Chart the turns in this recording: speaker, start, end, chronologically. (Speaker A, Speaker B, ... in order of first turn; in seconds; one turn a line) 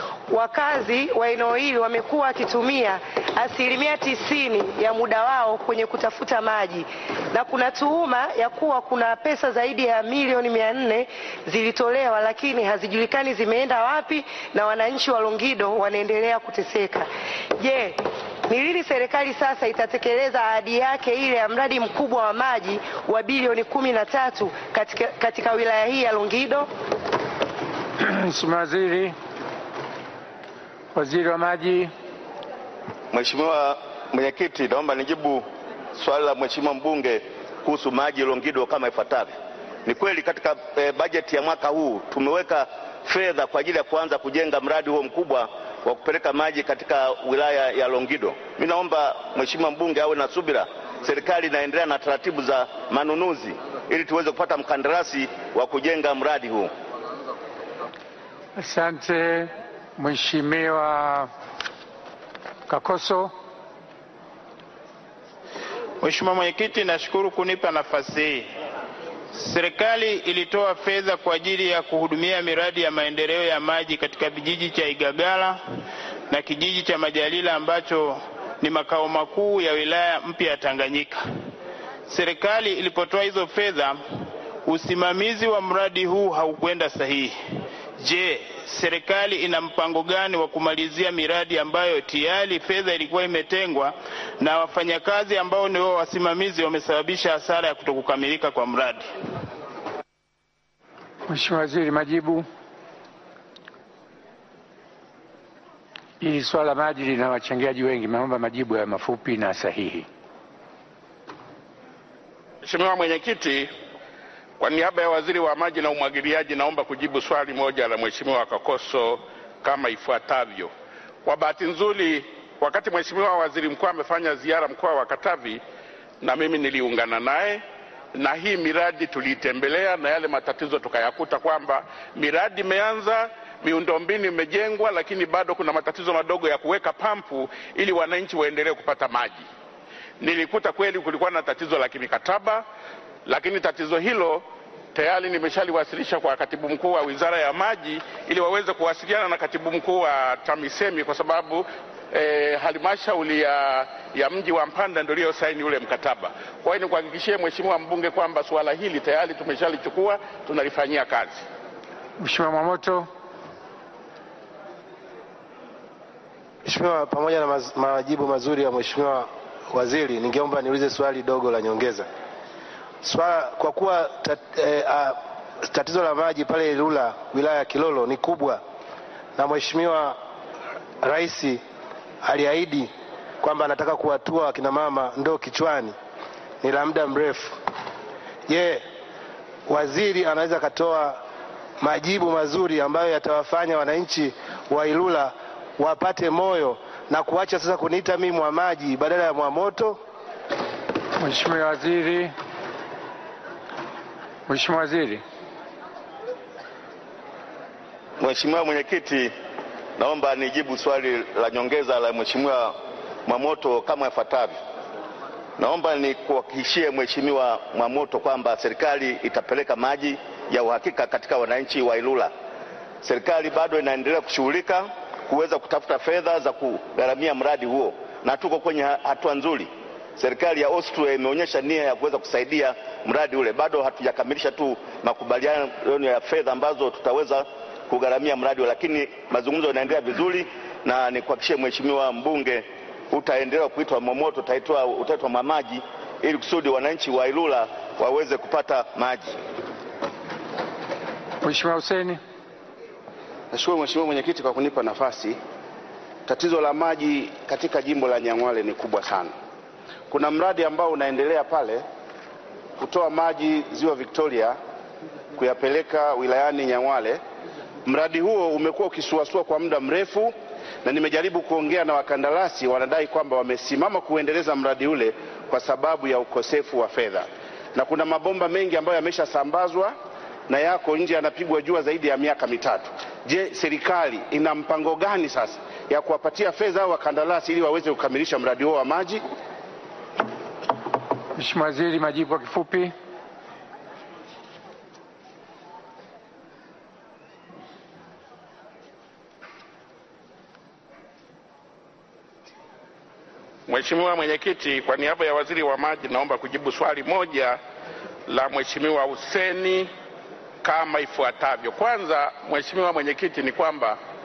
Speaker A: 0.3-26.7
Speaker B: 28.0-29.1
Speaker B: 30.9-31.9
Speaker C: 33.1-35.4
Speaker C: 35.9-39.3
Speaker C: 39.9-56.7
Speaker B: 58.6-61.3
Speaker B: 62.7-63.3
Speaker D: 66.0-68.5
Speaker D: 69.3-75.6
Speaker D: 76.3-81.2
Speaker D: 82.1-84.0
Speaker D: 84.6-87.4
Speaker D: 88.0-99.1
Speaker B: 101.3-102.5
Speaker B: 106.2-110.1
Speaker E: 112.6-113.7
Speaker E: 114.6-120.7
Speaker E: 121.2-125.6
Speaker E: 126.2-127.6
Speaker E: 128.1-139.4
Speaker E: 140.2-142.6
Speaker E: 143.2-144.4
Speaker E: 144.9-161.4
Speaker B: 162.2-163.1
Speaker F: 166.6-172.0
Speaker F: 173.0-175.1
Speaker F: 175.7-178.6
Speaker F: 179.3-180.1
Speaker F: 181.0-181.6
Speaker F: 182.2-182.9
Speaker F: 183.4-185.9
Speaker F: 186.6-187.5
Speaker F: 188.5-188.8
Speaker F: 189.7-191.2
Speaker F: 191.8-199.9
Speaker B: 201.2-202.3
Speaker B: 204.5-205.2
Speaker C: 208.2-209.3
Speaker C: 210.0-212.7
Speaker C: 213.2-214.6
Speaker C: 215.6-222.3
Speaker C: 223.0-249.3
Speaker B: 251.4-252.2
Speaker G: 253.5-255.4
Speaker G: 256.3-259.3
Speaker G: 260.1-261.8
Speaker G: 262.8-264.6
Speaker G: 265.4-267.2
Speaker G: 267.8-279.9
Speaker G: 280.5-289.2
Speaker B: 291.4-292.9
Speaker E: 303.7-307.6
Speaker E: 308.3-309.9
Speaker E: 310.6-314.0